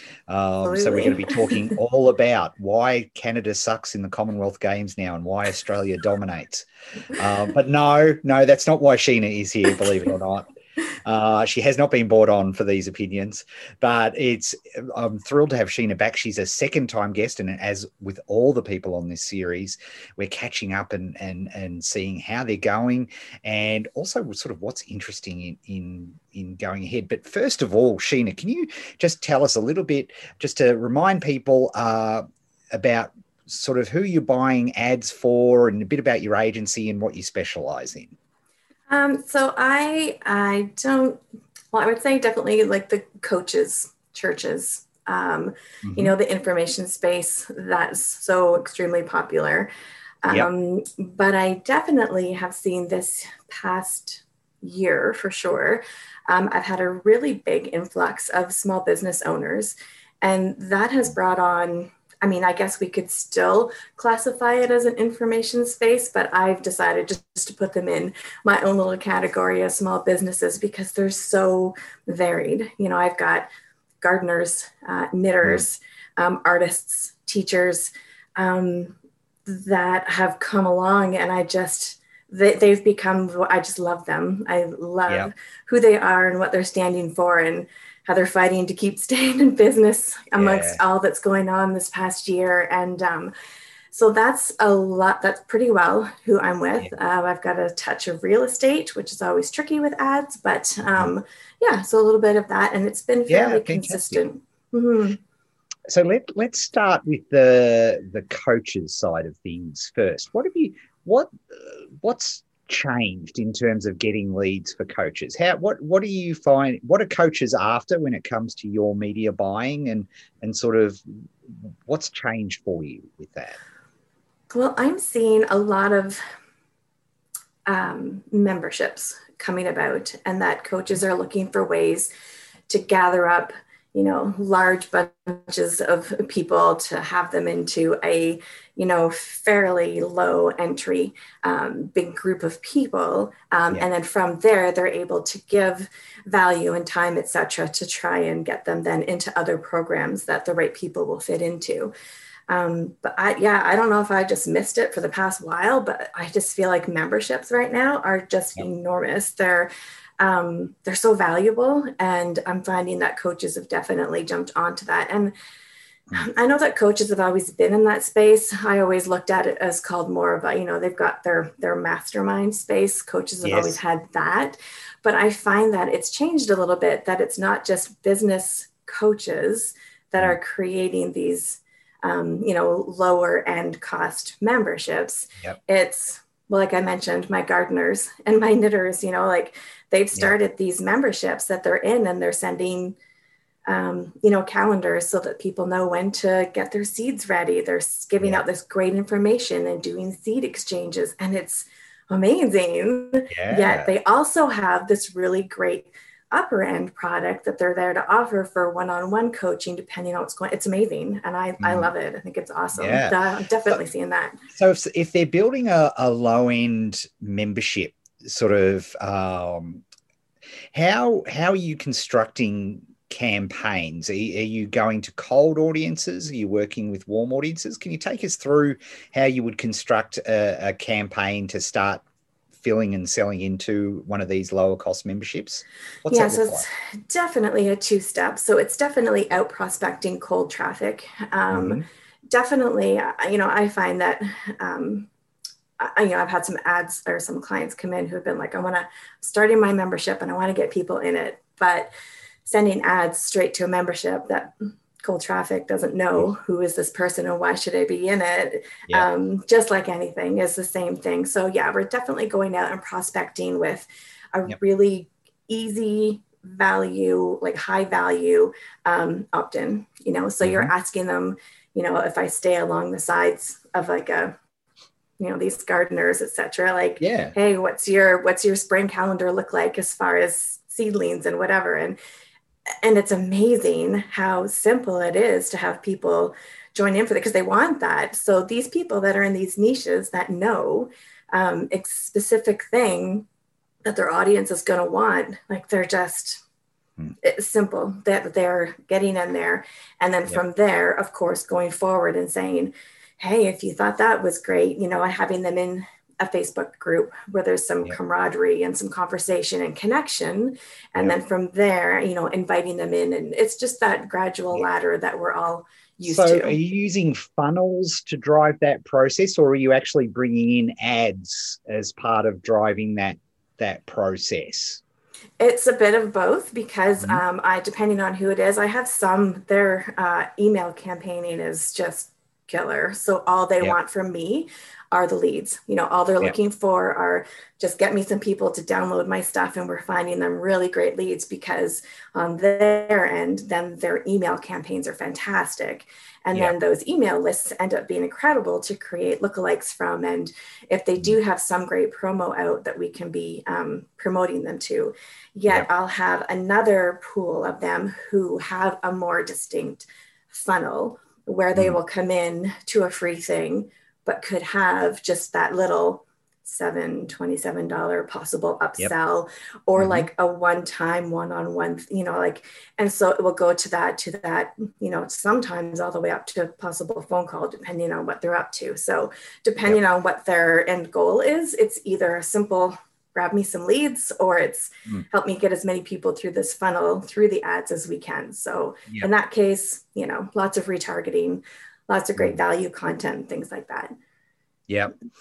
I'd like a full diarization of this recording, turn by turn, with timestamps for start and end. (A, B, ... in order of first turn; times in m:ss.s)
0:00.3-0:10.5 A
0:00.6-0:01.8 B
0:11.0-0:38.2 A
0:38.9-0:41.2 B
0:41.7-0:49.7 B
0:45.8-0:46.1 A
0:50.2-1:13.5 B
1:14.0-1:33.3 B
1:30.4-1:30.8 A
1:33.9-1:45.2 B
1:43.3-1:44.2 A
1:45.9-2:03.6 A
2:04.5-2:06.2 B
2:07.7-2:12.1 B
2:12.7-2:31.9 B
2:32.5-2:45.3 B
2:46.2-3:13.0 B
2:53.4-2:53.8 A
3:13.7-3:34.4 B
3:23.3-3:23.9 A
3:31.6-3:31.9 A
3:32.8-3:33.2 A
3:34.5-3:39.8 A
3:40.7-3:52.0 A
3:52.6-3:56.6 A
3:56.1-4:01.8 B
4:01.5-4:01.8 A
4:02.3-4:05.1 B
4:05.8-4:11.9 B
4:12.4-4:34.3 B
4:30.4-4:30.7 A
4:35.2-4:42.0 B
4:37.0-4:37.3 A
4:42.8-4:53.3 B
4:53.8-4:56.4 B
4:57.2-5:16.6 B
5:16.0-5:24.8 A
5:25.4-6:33.9 B
6:09.8-6:10.1 A
6:34.7-6:34.9 A